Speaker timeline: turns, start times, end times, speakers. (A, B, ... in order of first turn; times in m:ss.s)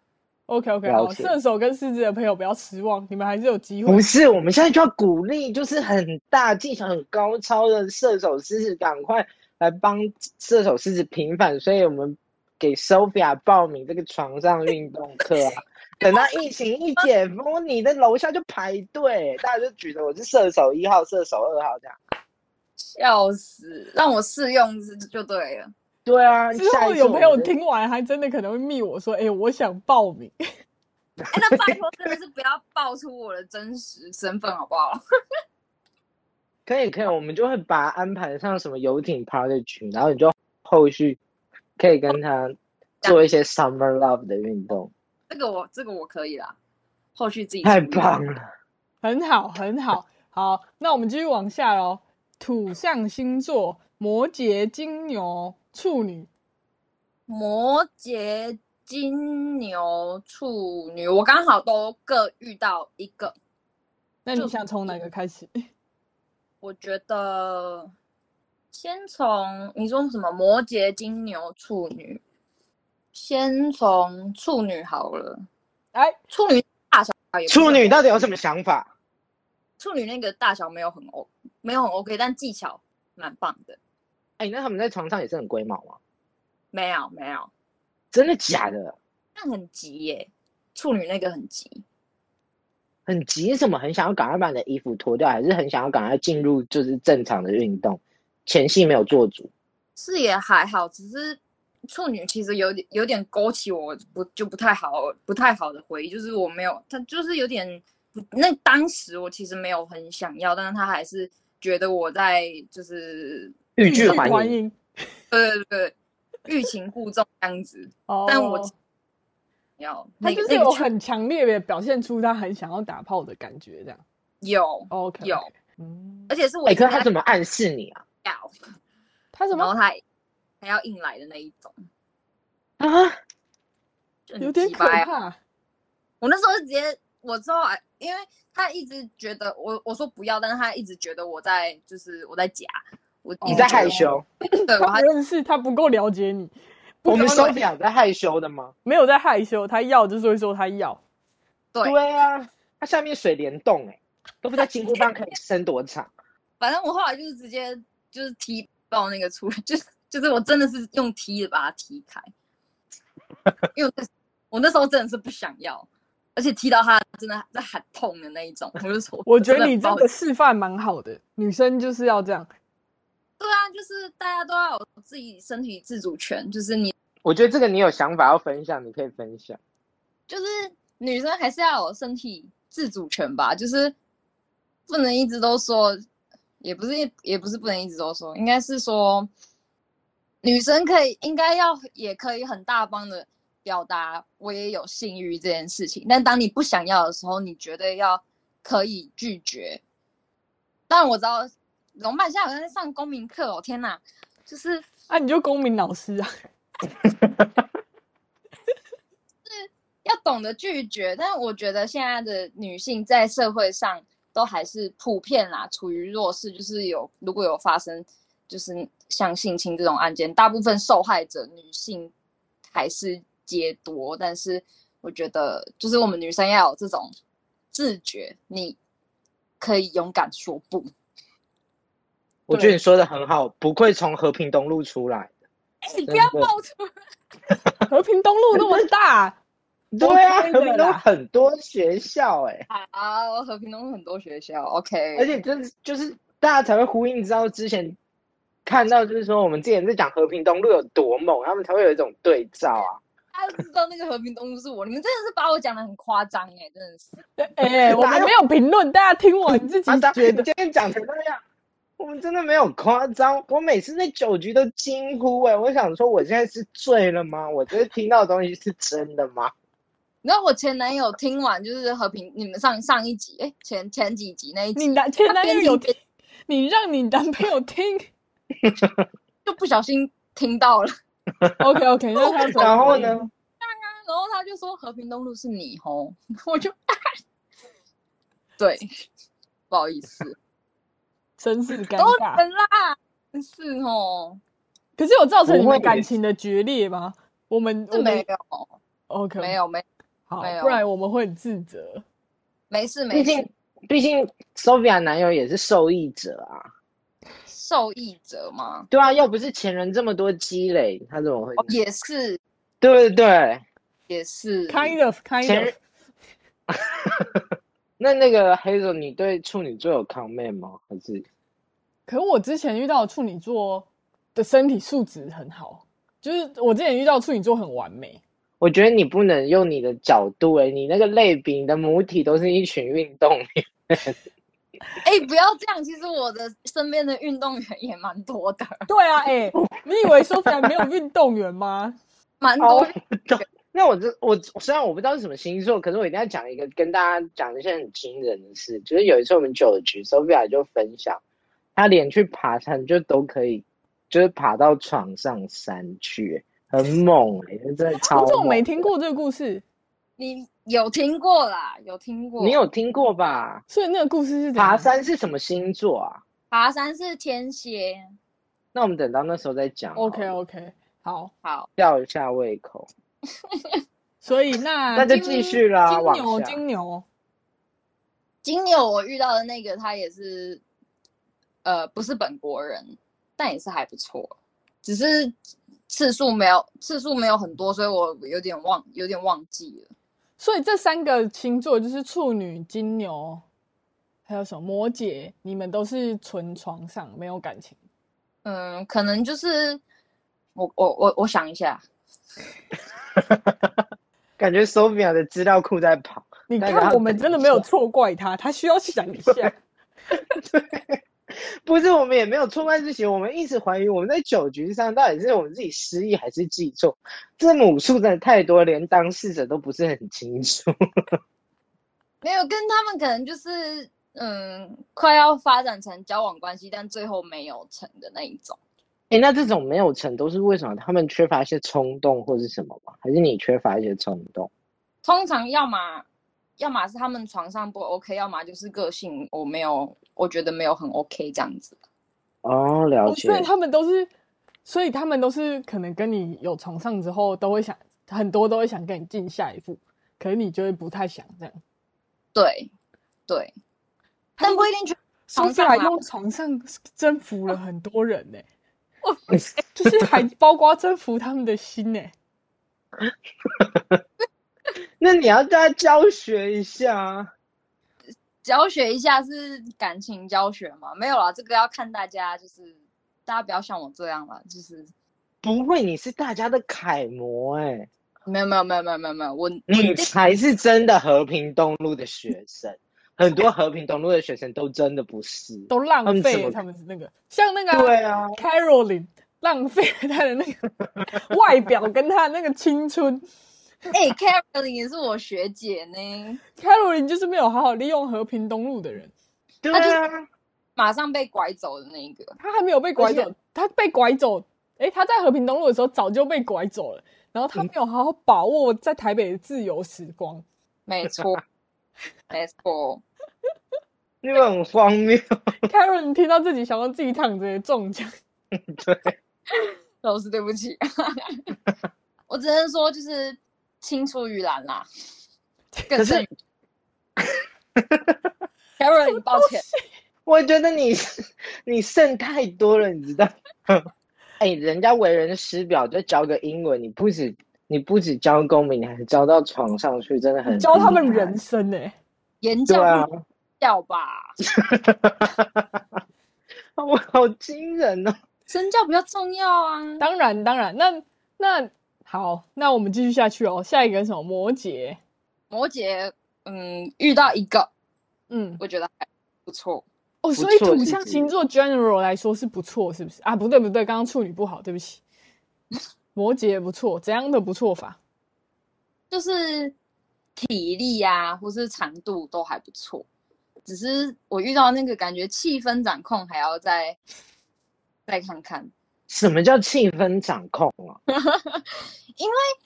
0:00.5-0:04.0 A
0:00.8-0:01.4 B
0:03.8-0:22.0 B
0:16.0-0:16.4 C
0:22.8-0:25.7 C
0:26.0-0:27.5 B
0:26.5-0:30.4 A
0:31.3-0:35.0 C
0:36.6-0:41.2 B
0:41.8-0:44.9 B
0:45.3-0:46.6 C
0:47.2-0:48.2 C
0:47.6-0:48.4 B
0:49.0-0:56.3 A
0:57.3-1:03.3 C
1:04.2-1:05.6 A
1:06.6-1:07.9 C
1:08.7-1:12.2 C
1:13.1-1:15.4 C
1:16.3-1:18.1 C
1:17.5-1:18.9 B
1:19.8-1:23.8 C
1:24.4-1:26.0 B
1:26.7-1:27.5 C
1:28.1-1:29.0 B
1:29.4-1:31.8 C
1:33.1-1:39.5 B
1:40.0-1:54.3 C
1:53.8-1:54.6 B
1:53.8-1:54.8 A
1:55.3-1:55.9 C
1:56.4-1:58.7 C
1:58.1-1:58.7 A
1:59.8-2:00.8 C
2:00.2-2:04.0 A
2:04.4-2:05.5 C
2:04.9-2:06.3 A
2:06.3-2:07.1 C
2:06.7-2:08.0 B
2:08.2-2:08.5 C
2:09.3-2:09.7 A
2:09.5-2:10.0 C
2:10.6-2:11.7 C
2:12.8-2:13.2 B
2:14.3-2:15.1 C
2:14.4-2:15.4 A
2:16.2-2:24.1 C
2:23.4-2:27.6 A
2:23.4-2:24.2 B
2:24.7-2:25.0 C
2:27.1-2:28.7 B
2:28.8-2:31.0 A
2:31.8-2:36.1 B
2:36.6-2:42.3 C
2:43.7-2:50.1 C
2:49.2-2:52.5 A
2:53.4-2:56.9 C
2:57.2-2:59.6 B
3:00.3-3:03.9 C
3:04.9-3:06.0 C
3:06.6-3:09.3 C
3:10.4-3:19.8 C
3:20.9-3:24.8 C
3:25.1-3:26.3 A
3:27.0-3:27.5 B
3:29.4-3:42.1 C
3:42.7-3:47.1 C
3:47.7-3:48.8 C
3:49.6-3:50.9 C
3:52.5-3:55.3 B
3:52.5-3:52.8 A
3:55.8-3:56.9 C
3:56.0-3:56.5 B
3:57.9-3:59.4 A
3:58.5-3:58.8 B
3:59.9-4:02.6 B
4:00.0-4:01.0 A
4:02.7-4:05.3 C
4:05.2-4:08.0 B
4:08.6-4:13.0 B
4:13.3-4:17.2 C
4:17.4-4:20.5 A
4:17.8-4:18.3 B
4:19.8-4:21.4 B
4:22.0-4:29.5 B
4:30.2-4:35.9 C
4:34.7-4:35.9 A
4:36.5-4:38.1 A
4:38.6-4:39.0 B
4:39.4-4:40.9 C
4:41.6-4:43.2 A
4:42.2-4:43.1 C
4:42.6-4:43.3 B
4:43.6-4:46.7 C
4:48.6-4:48.9 C
4:49.7-4:50.4 C
4:51.4-4:52.4 A
4:52.0-4:54.4 C
4:55.0-4:58.2 A
4:55.4-4:56.1 B
4:57.9-4:58.7 C
4:59.1-4:59.6 A
4:59.4-4:59.8 C
5:00.3-5:02.0 A
5:00.4-5:00.8 C
5:02.7-5:03.5 C
5:03.1-5:06.7 B
5:07.5-5:08.9 C
5:08.9-5:11.7 B
5:11.6-5:12.4 C
5:12.8-5:13.6 B
5:14.1-5:15.0 C
5:14.7-5:15.8 A
5:15.4-5:15.7 B
5:17.0-5:17.4 B
5:18.0-5:21.2 B
5:22.1-5:28.2 A
5:28.6-5:34.2 B
5:35.0-5:38.8 C
5:38.9-5:42.0 A
5:42.4-5:43.4 C
5:42.6-5:51.2 B
5:51.8-5:58.8 B
5:58.0-5:59.6 A
6:00.2-6:02.6 C
6:02.4-6:03.6 B
6:03.7-6:04.9 A
6:04.6-6:06.2 B
6:06.5-6:08.1 C
6:08.7-6:10.3 B
6:09.9-6:11.3 A
6:11.4-6:11.7 C
6:11.8-6:12.9 B
6:13.5-6:13.8 C
6:14.2-6:17.0 A
6:14.9-6:16.6 B
6:18.4-6:20.6 C
6:21.6-6:25.3 C
6:25.9-6:29.9 C
6:30.4-6:33.4 A
6:34.2-6:37.8 A
6:38.4-6:39.8 C
6:40.6-6:41.8 C
6:43.1-6:43.8 B
6:44.4-6:47.6 B
6:46.5-6:49.5 A
6:50.1-7:00.7 B
7:02.2-7:08.6 C
7:09.1-7:14.5 B
7:15.0-7:16.0 C
7:16.6-7:21.8 C
7:22.4-7:23.5 B
7:23.0-7:24.1 A
7:24.6-7:31.6 A
7:32.3-7:32.7 C
7:34.4-7:34.7 A
7:34.4-7:36.0 C
7:35.3-7:38.4 A
7:39.3-7:40.1 B
7:39.7-7:42.1 A
7:43.0-7:44.0 B
7:45.0-7:47.3 B
7:48.4-7:54.9 C
7:55.4-7:57.9 B
7:58.2-8:00.1 C
7:59.7-8:06.6 B
8:05.7-8:13.2 A
8:07.7-8:08.4 B
8:13.9-8:16.4 C
8:16.6-8:19.1 A
8:19.6-8:20.2 B
8:19.7-8:20.0 C
8:20.8-8:22.4 C
8:22.4-8:30.4 A
8:23.0-8:23.3 C
8:30.9-8:31.4 C
8:32.3-8:33.0 C
8:34.2-8:35.2 B
8:35.6-8:38.1 A
8:38.5-8:39.2 B
8:39.5-8:41.5 C
8:42.3-8:44.8 C
8:45.9-8:46.3 C
8:46.0-8:46.3 B
8:47.2-8:48.3 B
8:48.8-8:49.6 C
8:49.1-8:49.8 A
8:50.2-8:51.0 B
8:51.6-8:53.9 B
8:54.4-9:01.4 B
9:00.5-9:01.9 A
9:02.4-9:03.1 C
9:02.7-9:03.1 B
9:03.6-9:04.3 C
9:04.5-9:05.8 B
9:06.8-9:08.1 B
9:08.5-9:10.0 C
9:10.0-9:15.0 A
9:15.5-9:17.7 C
9:18.3-9:18.6 A
9:18.6-9:19.8 C
9:20.2-9:25.0 A
9:20.3-9:21.3 B
9:26.1-9:28.0 A
9:29.1-9:29.7 C
9:30.4-9:33.0 C
9:33.6-9:37.0 C
9:38.1-9:38.7 C
9:39.1-9:41.0 B
9:41.1-9:42.4 C